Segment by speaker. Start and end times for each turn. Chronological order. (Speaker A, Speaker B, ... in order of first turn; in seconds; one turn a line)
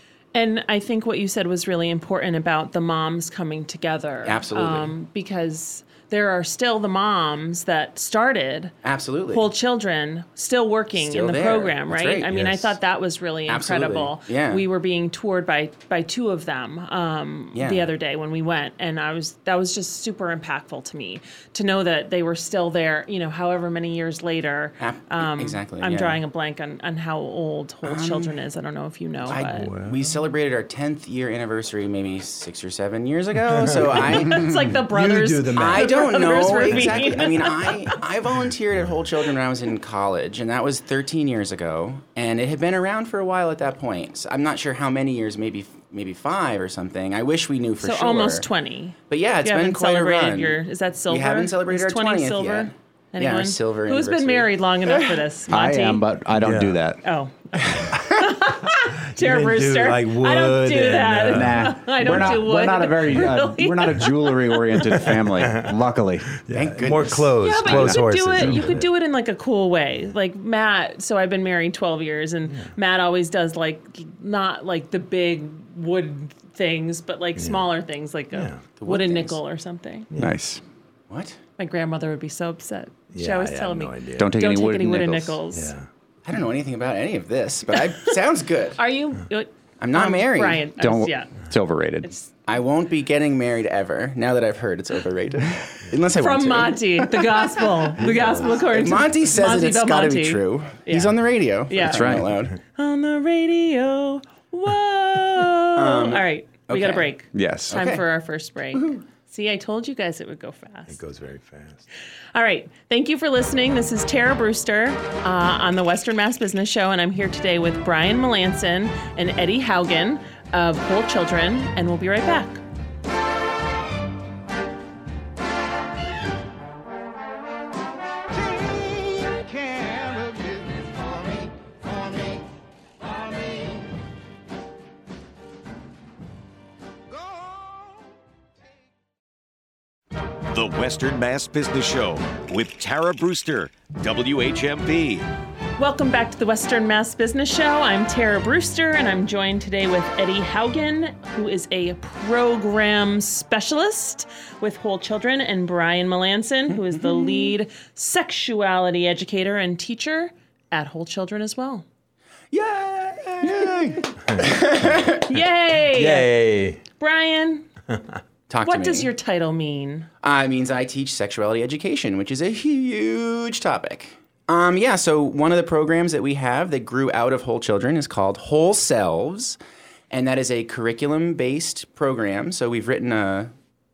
Speaker A: 0.3-8.7
Speaker B: 4.2-4.9
Speaker B: 8.8-9.5
Speaker A: 9.3-29.7
Speaker B: 10.9-12.3
Speaker C: 12.3-12.7
Speaker B: 13.5-14.6
Speaker B: 17.5-17.9
Speaker B: 24.8-26.2
Speaker B: 27.8-28.3
Speaker B: 29.2-34.8
Speaker C: 29.3-30.2
Speaker C: 33.4-37.4
Speaker A: 34.0-37.8
Speaker B: 35.5-48.5
Speaker A: 47.8-56.1
Speaker B: 49.1-55.2
Speaker D: 55.5-57.0
Speaker C: 56.3-56.8
Speaker A: 57.0-65.2
Speaker C: 57.9-58.2
Speaker C: 59.0-62.4
Speaker D: 61.2-66.4
Speaker C: 65.0-65.7
Speaker C: 66.5-68.8
Speaker B: 66.5-67.9
Speaker A: 67.4-80.1
Speaker C: 77.3-77.6
Speaker C: 78.3-78.6
Speaker B: 78.8-79.4
Speaker D: 80.2-80.6
Speaker B: 81.1-81.4
Speaker A: 81.6-85.7
Speaker C: 83.1-84.4
Speaker D: 84.2-85.4
Speaker C: 85.5-85.9
Speaker B: 86.2-88.8
Speaker A: 88.8-91.3
Speaker B: 89.8-90.7
Speaker D: 90.8-92.1
Speaker B: 92.5-102.6
Speaker A: 96.2-101.2
Speaker C: 98.0-98.5
Speaker A: 101.7-111.0
Speaker D: 101.8-102.3
Speaker B: 105.8-107.1
Speaker D: 107.3-107.7
Speaker B: 107.7-108.0
Speaker B: 108.7-109.0
Speaker C: 110.9-111.8
Speaker A: 112.3-122.6
Speaker E: 128.3-132.4
Speaker E: 133.0-133.9
Speaker E: 137.1-138.1
Speaker F: 140.5-145.2
Speaker A: 145.8-161.8
Speaker B: 156.9-157.5
Speaker B: 162.5-165.3
Speaker A: 165.2-166.3
Speaker C: 165.9-166.8
Speaker A: 167.0-167.7
Speaker B: 168.5-169.1
Speaker A: 168.6-170.1
Speaker B: 170.2-179.6
Speaker B: 180.1-183.5